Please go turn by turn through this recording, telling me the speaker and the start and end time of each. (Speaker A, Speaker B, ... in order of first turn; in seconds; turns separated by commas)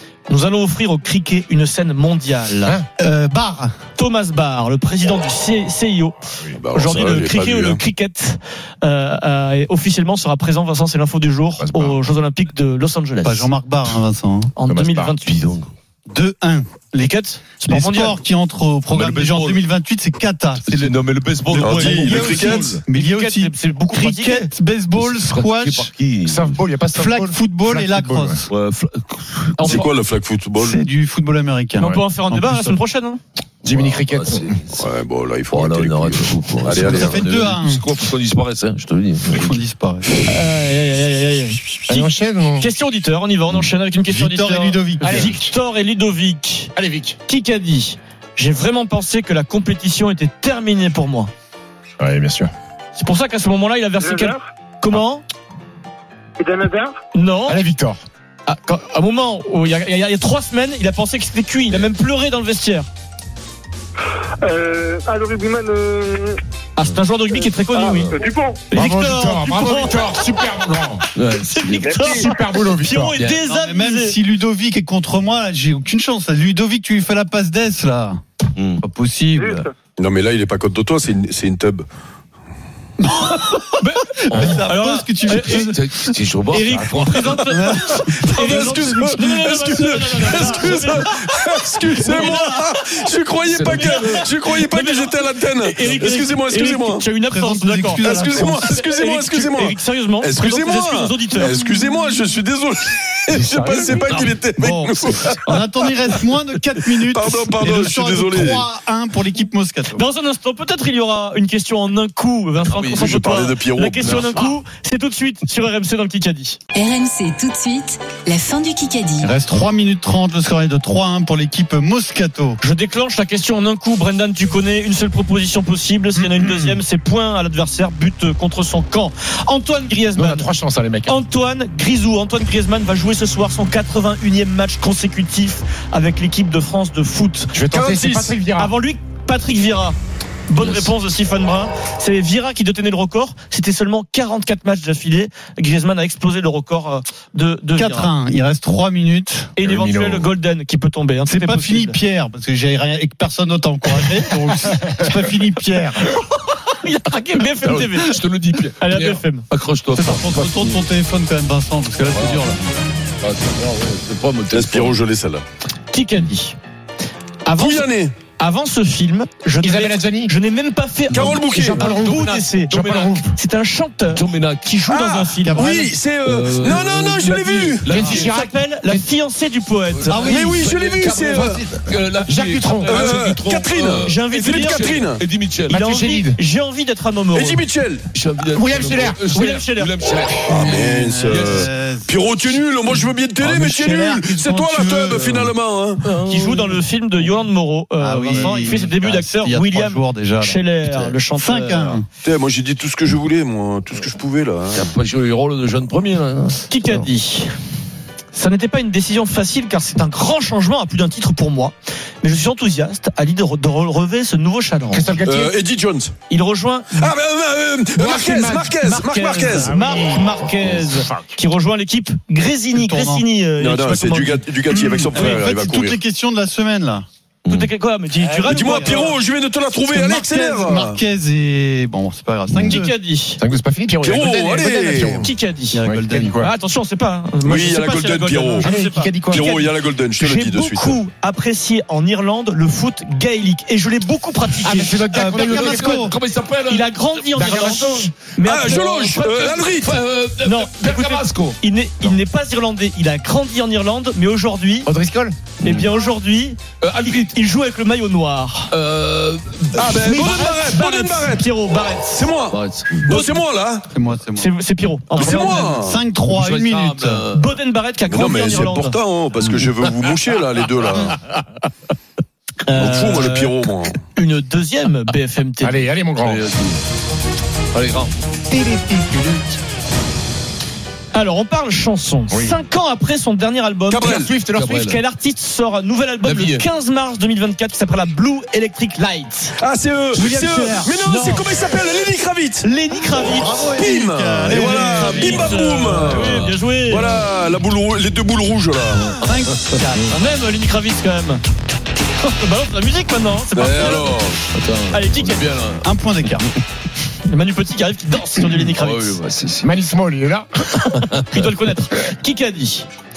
Speaker A: 0.3-2.8, Speaker B: 3.0-3.7, Speaker A: 4.0-6.2, Speaker C: 6.6-7.8, Speaker A: 6.7-13.5, Speaker D: 11.6-12.0, Speaker B: 13.2-14.5, Speaker A: 14.6-15.4, Speaker D: 14.6-15.2, Speaker E: 15.3-15.7, Speaker B: 16.1-21.0, Speaker A: 17.0-18.2, Speaker E: 18.9-19.6, Speaker E: 20.6-22.8, Speaker C: 21.6-22.7, Speaker A: 21.6-24.5, Speaker B: 21.6-25.9, Speaker E: 24.9-26.7, Speaker D: 26.2-28.5, Speaker B: 26.9-28.5, Speaker E: 28.5-29.9, Speaker A: 29.6-29.9, Speaker C: 29.6-30.8, Speaker B: 30.6-32.8, Speaker A: 31.8-33.2, Speaker D: 33.6-34.6, Speaker E: 33.6-34.7, Speaker C: 34.7-37.2, Speaker E: 35.5-39.6, Speaker B: 36.9-37.9, Speaker B: 39.3-40.2, Speaker A: 40.2-46.7, Speaker D: 41.9-42.7, Speaker B: 44.1-45.3, Speaker D: 45.0-45.4, Speaker D: 46.8-47.2, Speaker A: 47.3-51.3, Speaker D: 52.0-52.5, Speaker A: 53.0-55.2, Speaker F: 54.0-54.4, Speaker F: 56.4-56.9, Speaker A: 57.1-57.6, Speaker D: 57.5-58.0, Speaker A: 58.5-62.9, Speaker F: 64.4-66.4, Speaker A: 66.8-70.3, Speaker F: 67.7-68.6, Speaker D: 68.7-71.0, Speaker E: 71.2-72.2, Speaker A: 71.4-74.2, Speaker F: 71.9-72.1, Speaker D: 72.0-73.2, Speaker E: 73.2-73.4, Speaker B: 73.5-78.2, Speaker E: 78.6-78.8, Speaker B: 78.8-79.7, Speaker F: 79.4-79.7, Speaker C: 80.0-81.9, Speaker B: 83.0-85.8, Speaker A: 83.8-85.7, Speaker E: 84.3-84.7, Speaker E: 85.3-87.6, Speaker A: 86.5-91.2, Speaker C: 87.5-97.1, Speaker B: 87.5-89.7, Speaker B: 90.3-91.1, Speaker B: 91.8-92.5, Speaker A: 91.8-92.6, Speaker E: 93.5-94.3, Speaker A: 93.8-101.6, Speaker B: 97.2-98.8, Speaker C: 98.0-108.7, Speaker D: 103.3-104.2, Speaker B: 104.6-110.0, Speaker A: 110.0-116.6, Speaker E: 112.7-113.1, Speaker C: 112.9-114.5, Speaker G: 116.7-119.3, Speaker B: 119.2-122.6, Speaker A: 122.6-130.5, Speaker B: 126.2-126.7, Speaker D: 130.2-131.2, Speaker A: 131.1-137.6, Speaker D: 137.5-138.7, Speaker C: 137.7-138.3, Speaker A: 138.6-140.0, Speaker A: 140.5-148.1, Speaker B: 147.8-149.6, Speaker A: 149.6-152.0, Speaker D: 149.6-150.3, Speaker B: 151.3-156.2, Speaker A: 156.7-158.2, Speaker E: 157.6-160.8, Speaker A: 158.8-160.4, Speaker B: 160.2-162.6, Speaker E: 162.1-162.5, Speaker E: 163.2-165.0, Speaker C: 164.5-165.4, Speaker A: 165.9-166.6, Speaker A: 167.4-175.8, Speaker C: 167.6-168.1, Speaker D: 169.6-170.3, Speaker D: 171.1-173.4, Speaker C: 171.1-171.9, Speaker E: 171.9-173.2, Speaker E: 174.1-174.9, Speaker C: 174.9-178.0, Speaker E: 176.2-178.3, Speaker A: 177.9-180.5, Speaker D: 177.9-179.1, Speaker E: 179.9-185.8, Speaker B: 180.1-180.4, Speaker C: 180.2-181.6, Speaker D: 182.2-183.2, Speaker C: 182.8-185.2, Speaker A: 184.0-185.1, Speaker D: 185.7-186.4, Speaker A: 185.7-187.7, Speaker C: 187.3-188.1, Speaker E: 188.1-191.7, Speaker D: 188.5-189.2, Speaker A: 189.3-190.0, Speaker C: 190.5-196.0, Speaker B: 190.6-192.6, Speaker B: 193.3-195.6, Speaker E: 196.0-196.8, Speaker A: 196.3-202.0, Speaker B: 198.0-202.1, Speaker E: 198.3-198.8, Speaker C: 202.2-204.9, Speaker E: 204.7-207.1, Speaker A: 206.7-207.5, Speaker A: 208.3-215.2, Speaker D: 214.9-215.6, Speaker C: 215.2-216.1, Speaker A: 216.3-217.1, Speaker C: 216.9-219.8, Speaker D: 218.0-218.8, Speaker A: 218.8-224.5, Speaker D: 219.5-221.3, Speaker B: 222.7-223.3, Speaker C: 223.6-226.0, Speaker B: 224.7-227.1, Speaker A: 225.1-225.5, Speaker E: 227.4-227.7, Speaker A: 227.5-229.2, Speaker B: 228.2-229.2, Speaker C: 228.4-231.0, Speaker B: 229.9-232.9, Speaker A: 232.7-233.4, Speaker D: 233.4-235.3, Speaker C: 234.0-235.3, Speaker A: 235.2-235.8, Speaker B: 235.7-236.4, Speaker D: 235.8-236.5, Speaker A: 236.4-245.0, Speaker C: 237.4-238.7, Speaker B: 238.6-239.6, Speaker D: 238.7-239.2, Speaker C: 239.3-241.0, Speaker D: 244.6-246.1, Speaker E: 244.9-247.7, Speaker B: 245.1-246.2, Speaker A: 246.7-249.7, Speaker D: 247.3-248.1, Speaker C: 248.4-250.0, Speaker E: 249.2-251.6, Speaker A: 250.4-254.9, Speaker D: 254.9-255.4, Speaker A: 255.6-258.7, Speaker E: 255.6-255.9, Speaker E: 256.8-257.3, Speaker E: 258.7-260.5, Speaker C: 259.8-261.5, Speaker A: 259.9-262.3, Speaker C: 262.0-263.9, Speaker E: 262.5-263.3, Speaker A: 263.1-263.4, Speaker B: 263.9-264.5, Speaker A: 264.4-265.8, Speaker C: 265.1-266.0, Speaker B: 265.2-267.3, Speaker E: 266.3-267.4, Speaker A: 267.3-269.0, Speaker C: 268.1-271.2, Speaker A: 272.7-273.6, Speaker C: 272.7-274.0, Speaker A: 274.1-275.9, Speaker D: 275.6-276.6, Speaker E: 276.2-276.8, Speaker E: 277.7-278.1, Speaker D: 278.5-279.2, Speaker A: 281.1-289.6, Speaker D: 282.3-282.6, Speaker C: 283.9-284.3, Speaker D: 284.0-285.0, Speaker E: 284.5-285.0, Speaker E: 286.2-286.6, Speaker C: 289.6-299.1, Speaker B: 290.1-291.0, Speaker A: 291.0-291.5, Speaker A: 292.6-293.8, Speaker B: 293.2-295.5, Speaker A: 294.5-297.2, Speaker E: 295.0-297.2, Speaker E: 299.0-300.1, Speaker B: 299.2-300.4, Speaker A: 300.1-301.4, Speaker A: 302.2-304.2, Speaker C: 303.6-304.4, Speaker E: 303.7-305.9, Speaker A: 304.9-305.5, Speaker B: 305.8-306.5, Speaker A: 307.2-309.2, Speaker E: 308.5-309.7, Speaker D: 309.6-310.9, Speaker E: 310.9-311.5, Speaker A: 311.3-312.9